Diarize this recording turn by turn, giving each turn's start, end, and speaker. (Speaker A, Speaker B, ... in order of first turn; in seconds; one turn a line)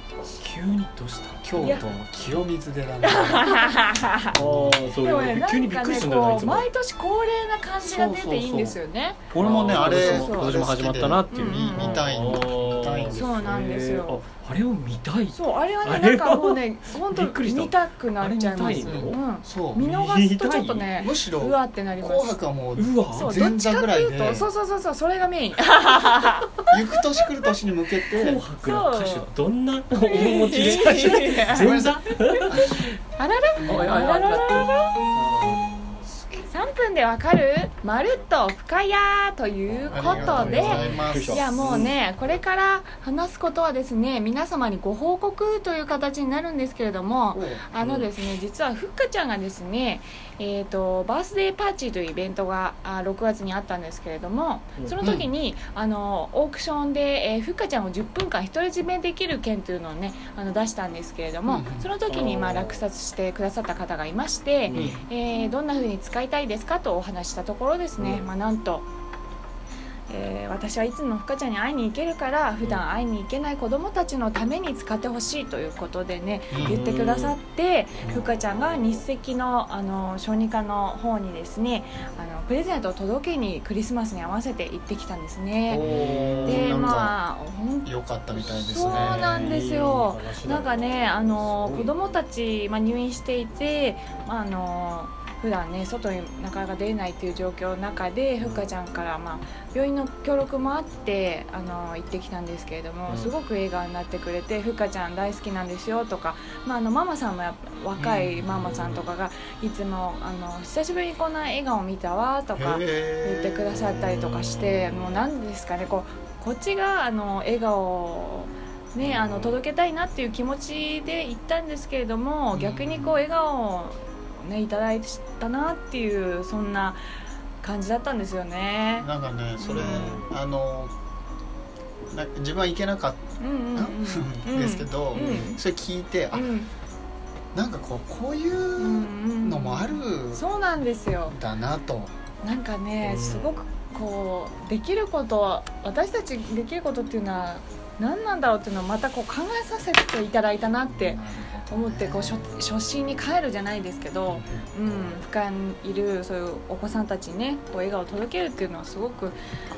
Speaker A: 0.2-1.9
Speaker B: 1.4-3.8
Speaker C: 1.6-1.9
Speaker C: 3.0-4.3
Speaker B: 4.3-5.0
Speaker A: 4.3-6.7
Speaker C: 5.0-9.2
Speaker B: 7.8-8.8
Speaker B: 9.3-13.4
Speaker A: 9.3-19.2
Speaker C: 9.8-10.6
Speaker C: 11.3-12.0
Speaker C: 13.1-14.2
Speaker C: 15.3-22.4
Speaker B: 18.6-19.8
Speaker A: 19.8-21.0
Speaker B: 21.0-24.5
Speaker A: 22.8-23.4
Speaker C: 23.1-26.7
Speaker B: 26.7-28.4
Speaker A: 28.1-32.9
Speaker C: 28.6-29.3
Speaker C: 30.0-35.0
Speaker B: 31.5-32.9
Speaker A: 33.6-36.3
Speaker C: 36.4-68.8
Speaker A: 39.7-41.9
Speaker B: 39.8-41.9
Speaker B: 47.3-47.6
Speaker A: 47.8-48.1
Speaker B: 55.0-55.3
Speaker B: 61.5-61.9
Speaker A: 62.1-62.8
Speaker A: 64.7-65.0
Speaker B: 64.7-65.0
Speaker A: 68.0-68.3
Speaker C: 70.1-85.8
Speaker B: 76.5-76.8
Speaker A: 76.5-77.4
Speaker B: 78.0-78.2
Speaker A: 78.1-79.0
Speaker B: 85.7-87.2
Speaker A: 85.7-86.8
Speaker C: 86.4-127.0
Speaker B: 87.8-89.5
Speaker A: 88.8-91.9
Speaker A: 98.4-98.7
Speaker A: 103.1-103.3
Speaker B: 108.0-108.8
Speaker A: 108.6-109.0
Speaker B: 112.5-115.0
Speaker A: 114.4-114.8
Speaker A: 119.0-119.5
Speaker B: 122.5-123.2
Speaker C: 127.6-129.1
Speaker B: 129.0-130.9
Speaker C: 129.6-130.2
Speaker A: 129.7-130.3
Speaker B: 132.1-133.2
Speaker C: 133.4-135.6
Speaker B: 133.7-136.5
Speaker A: 135.1-135.6
Speaker C: 136.3-136.7
Speaker B: 137.5-140.4
Speaker C: 138.8-141.3
Speaker B: 141.3-142.1
Speaker C: 142.4-159.4
Speaker A: 143.0-143.6
Speaker B: 150.8-152.5
Speaker B: 154.3-155.2